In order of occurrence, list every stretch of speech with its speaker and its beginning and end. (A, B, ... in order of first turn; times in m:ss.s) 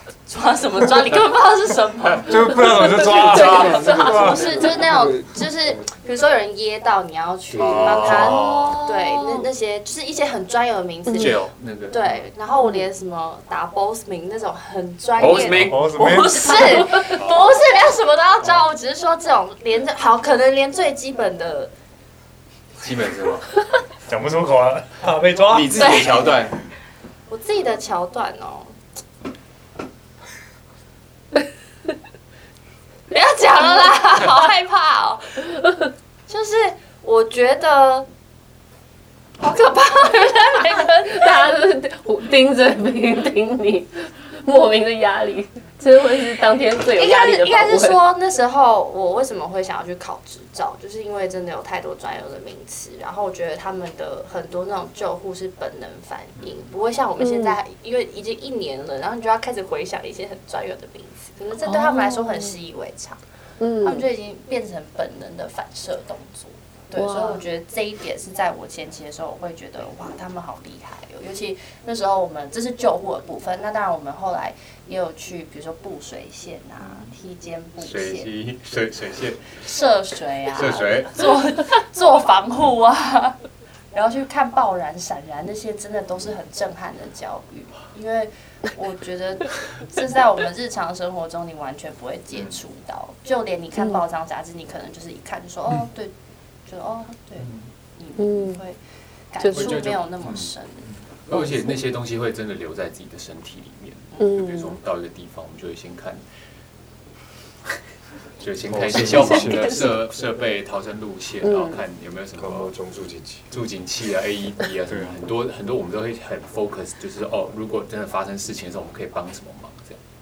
0:00.3-0:21.7 A
0:02.2-0:04.5 B
0:02.7-0:04.8 C
0:03.2-0:05.9 D
0:03.2-0:03.8 E
0:07.5-0:09.1 E
0:07.7-0:08.0 D
0:09.2-0:09.5 C
0:11.1-0:11.4 C
0:11.2-0:12.2 E
0:12.6-0:12.9 C
0:15.2-0:16.0 E
0:15.4-0:16.9 B
0:16.3-0:17.2 C
0:17.1-0:17.4 E
0:22.8-0:23.5 E
0:24.1-0:25.9 B
0:25.4-0:26.6 E
0:25.7-0:26.5 A
0:27.3-0:28.7 A
0:33.1-0:35.6 A
0:36.3-0:38.1 A
0:39.4-0:41.5 A
0:40.4-0:48.0 C
0:46.8-1:03.2 A
0:57.2-0:57.6 C
1:01.6-1:02.6 C
1:03.6-1:04.1 C
1:03.8-1:18.3 A
1:07.0-1:07.4 C
1:17.8-1:19.6 E
1:19.6-1:23.4 A
1:20.5-1:21.2 E
1:23.9-1:36.1 A
1:32.3-1:32.6 E
1:33.8-1:34.0 C
1:36.7-1:38.8 A
1:38.2-1:38.6 C
1:39.3-1:41.7 A
1:39.4-1:39.8 C
1:39.5-1:46.2 E
1:44.2-1:44.8 C
1:48.4-1:52.7 E
1:48.7-1:50.1 D
1:48.8-1:49.4 B
1:49.1-1:49.7 C
1:51.4-1:51.8 C
1:52.4-1:53.5 D
1:53.5-2:00.0 E
1:54.9-1:55.2 B